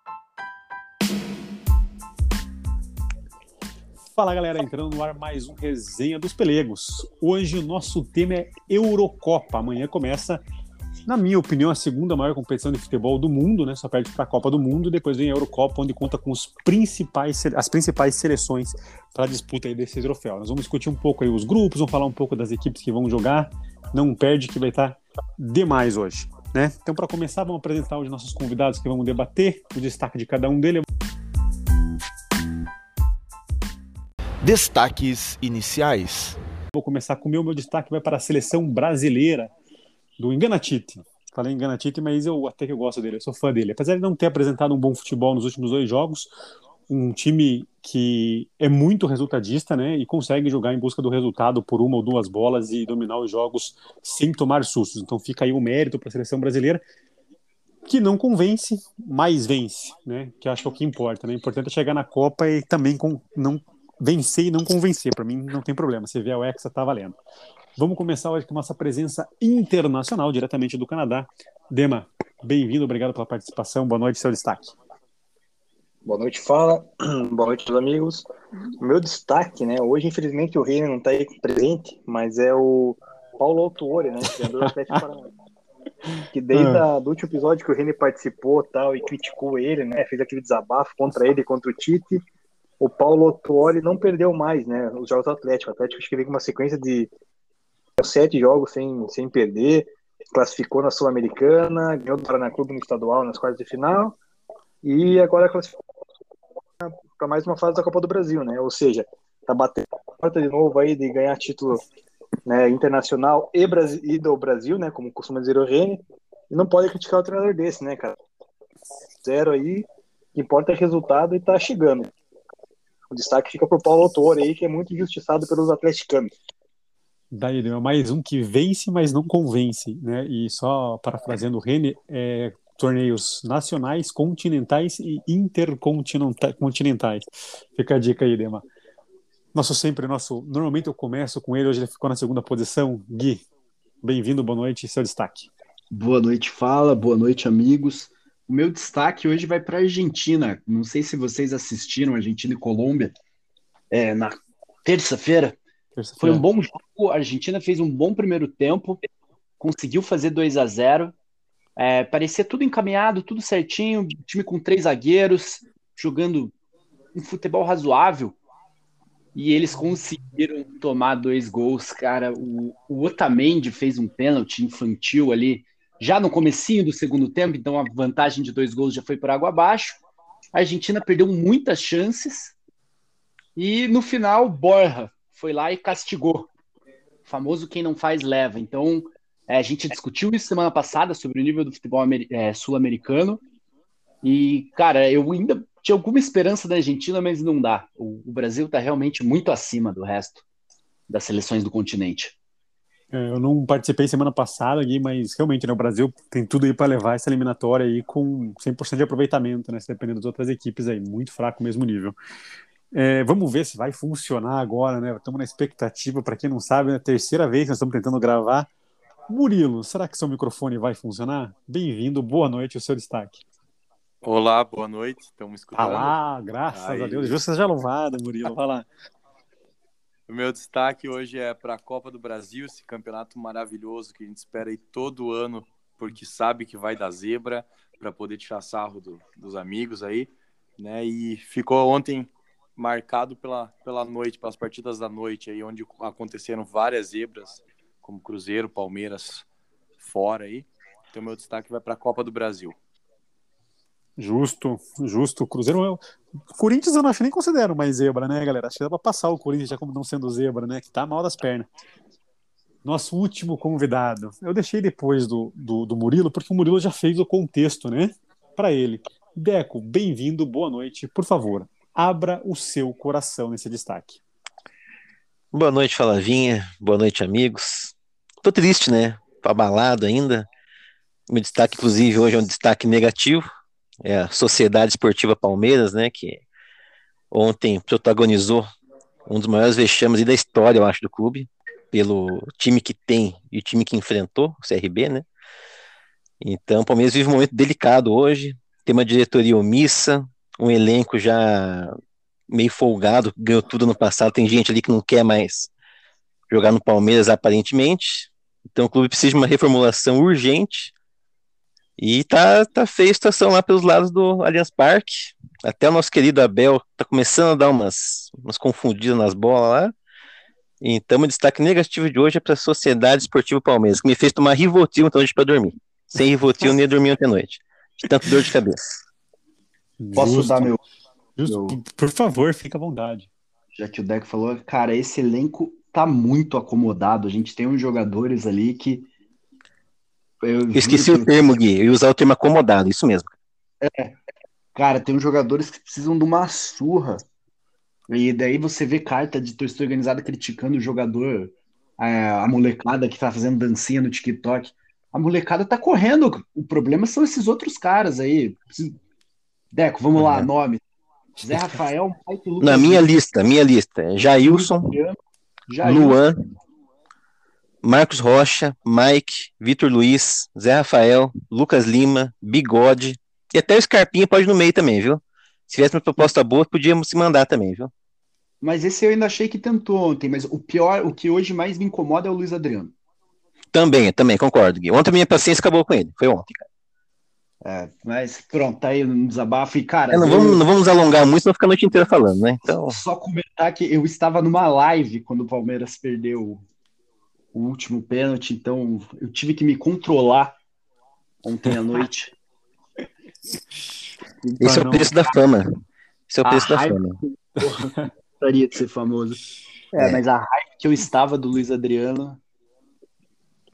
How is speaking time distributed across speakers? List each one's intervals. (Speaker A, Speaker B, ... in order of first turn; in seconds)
Speaker A: 4.1-10.4, 11.1-30.9, 36.7-39.5, 40.2-46.3, 46.9-56.8, 57.9-67.2, 67.8-74.7, 84.2-85.0, 86.5-86.8, 127.3-138.7, 139.5-143.4, 144.0-145.5, 156.0-156.4, 203.1-212.2, 212.9-218.7, 219.3-223.4, 225.8-228.9, 254.2-256.0, 256.5-261.7, 262.8-274.2, 330.0-330.8, 331.4-333.3, 404.4-405.1
Speaker B: 34.4-36.4
Speaker C: 76.0-78.2, 78.8-85.3, 86.3-92.2, 92.8-97.1, 98.0-104.2, 104.8-105.8, 106.8-111.8, 112.5-118.2, 119.2-122.1, 123.1-126.3
Speaker D: 145.9-153.1, 153.9-155.6, 156.2-159.0, 159.6-161.2, 161.8-166.5, 167.1-168.4, 169.3-180.0, 180.5-182.6, 183.6-186.5, 187.2-193.4, 194.2-200.4, 201.1-202.4, 330.1-330.8, 331.4-331.8, 333.7-339.1, 340.4-341.3, 343.8-344.2, 344.8-347.2, 348.1-359.0, 359.7-360.8, 361.4-363.1, 364.4-366.2, 378.6-382.9, 387.6-390.6, 392.9-396.6, 397.5-400.6, 401.4-402.3, 406.4-409.4, 409.9-412.4
Speaker E: 224.2-226.2, 226.7-227.4, 230.3-249.4, 250.0-252.8
Speaker F: 275.5-280.5, 281.3-283.5, 284.0-286.4, 287.3-288.7, 289.2-295.2, 296.4-301.9, 302.5-305.7, 306.5-310.9, 312.0-319.9, 320.8-328.8, 340.8-343.3, 362.6-364.9, 365.8-366.4, 367.8-377.9, 383.7-386.6, 390.1-393.0, 404.6-405.7, 406.3-407.1